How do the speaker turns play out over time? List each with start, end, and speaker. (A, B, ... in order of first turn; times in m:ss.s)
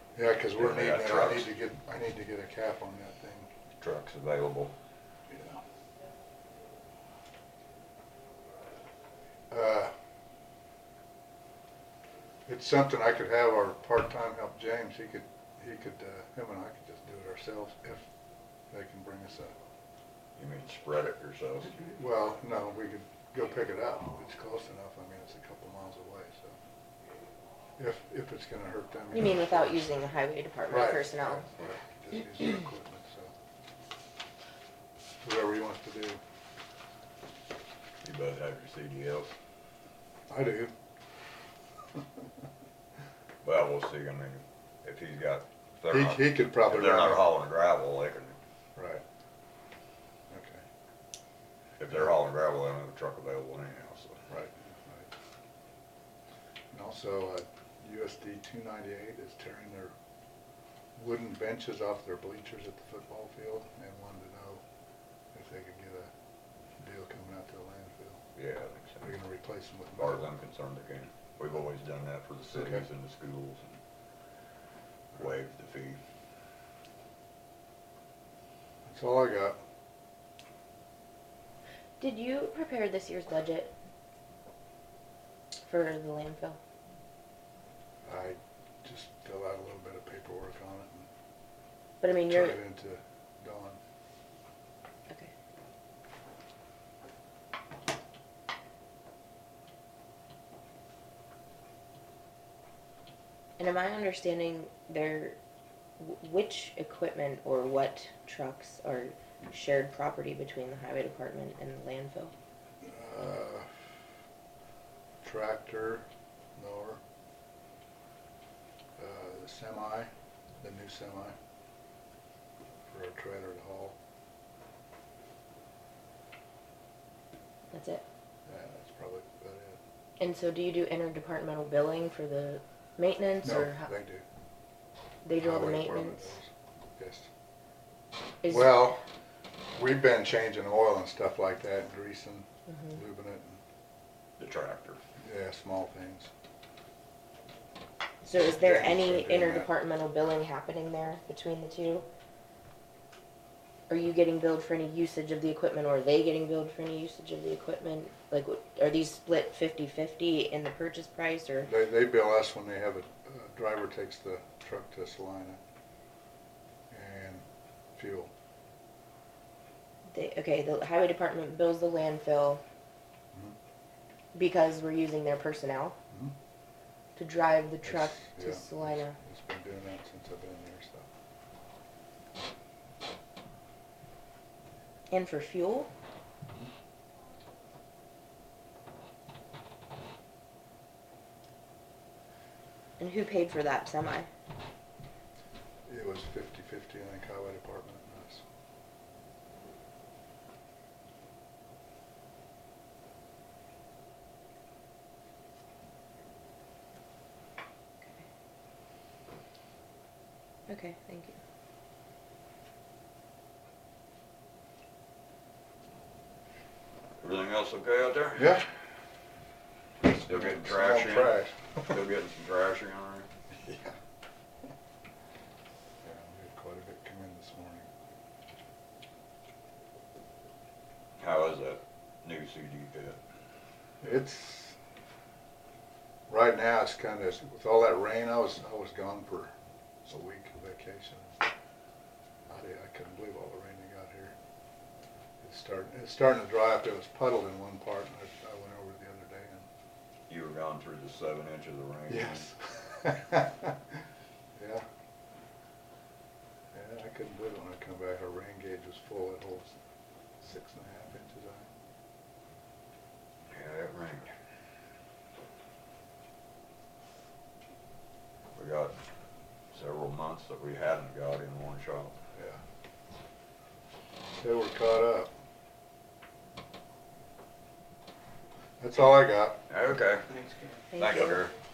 0:00.1-0:03.5 A
0:00.5-0:01.5 B
0:03.8-0:04.7 B
0:05.3-0:05.6 A
0:09.5-0:09.9 A
0:12.4-0:18.0 A
0:18.7-0:19.5 A
0:20.4-0:21.8 B
0:21.9-0:26.5 A
0:27.8-0:29.8 A
0:29.1-0:31.7 C
0:30.7-0:33.3 A
0:35.2-0:36.2 A
0:38.0-0:39.3 B
0:40.3-0:40.7 A
0:43.4-0:48.4 B
0:45.9-0:47.3 A
0:48.8-0:49.0 A
0:50.3-0:50.6 A
0:51.8-0:54.2 B
0:54.3-0:55.1 A
0:56.7-0:59.9 A
1:01.0-1:04.6 A
1:05.3-1:06.1 A
1:06.8-1:08.2 A
1:08.4-1:09.2 B
1:09.0-1:10.2 A
1:10.0-1:13.8 B
1:12.6-1:12.8 A
1:15.1-1:16.0 B
1:18.8-1:19.6 A
1:22.0-1:23.7 C
1:25.6-1:26.6 C
1:28.0-1:31.0 A
1:32.0-1:32.6 C
1:32.3-1:33.8 A
1:43.6-1:45.4 C
1:46.0-1:52.3 C
1:52.8-1:53.7 A
1:55.2-1:57.0 A
1:59.0-2:00.1 A
2:00.6-2:01.3 A
2:02.9-2:03.9 A
2:07.7-2:08.0 C
2:08.4-2:09.8 A
2:10.2-2:13.9 C
2:13.4-2:14.2 A
2:15.2-2:16.3 C
2:15.4-2:17.3 A
2:18.4-2:18.9 C
2:18.5-2:19.0 A
2:19.7-2:23.6 A
2:22.7-2:23.0 C
2:24.4-2:25.0 B
2:25.2-2:26.3 A
2:28.2-2:32.1 C
2:28.2-2:29.7 A
2:33.9-2:41.7 C
2:41.6-2:45.6 A
2:46.9-2:47.4 A
2:47.9-2:48.3 A
2:50.1-2:52.6 C
2:54.3-2:56.0 C
2:57.2-2:59.2 C
2:57.8-3:01.1 A
3:05.1-3:05.9 C
3:13.0-3:14.3 C
3:15.8-3:18.4 A
3:30.7-3:31.4 C
3:37.2-3:38.6 B
3:38.4-3:38.7 A
3:40.0-3:43.3 B
3:40.0-3:42.0 A
3:43.6-3:43.9 A
3:46.0-3:47.9 A
3:51.2-3:53.2 B
3:54.0-3:54.8 A
3:56.3-3:59.5 A
4:00.0-4:01.3 A
4:02.5-4:04.3 A
4:05.4-4:09.6 A
4:10.3-4:12.5 B
4:12.1-4:13.8 A
4:14.6-4:14.8 A
4:16.7-4:19.8 A
4:20.4-4:21.7 A
4:23.5-4:24.3 B
4:28.5-4:28.9 B
4:29.7-4:32.2 B
4:32.3-4:32.6 A
4:34.4-4:35.3 A
4:38.8-4:39.6 A
4:39.7-4:40.4 B
4:40.9-4:41.4 C
4:41.0-4:41.5 B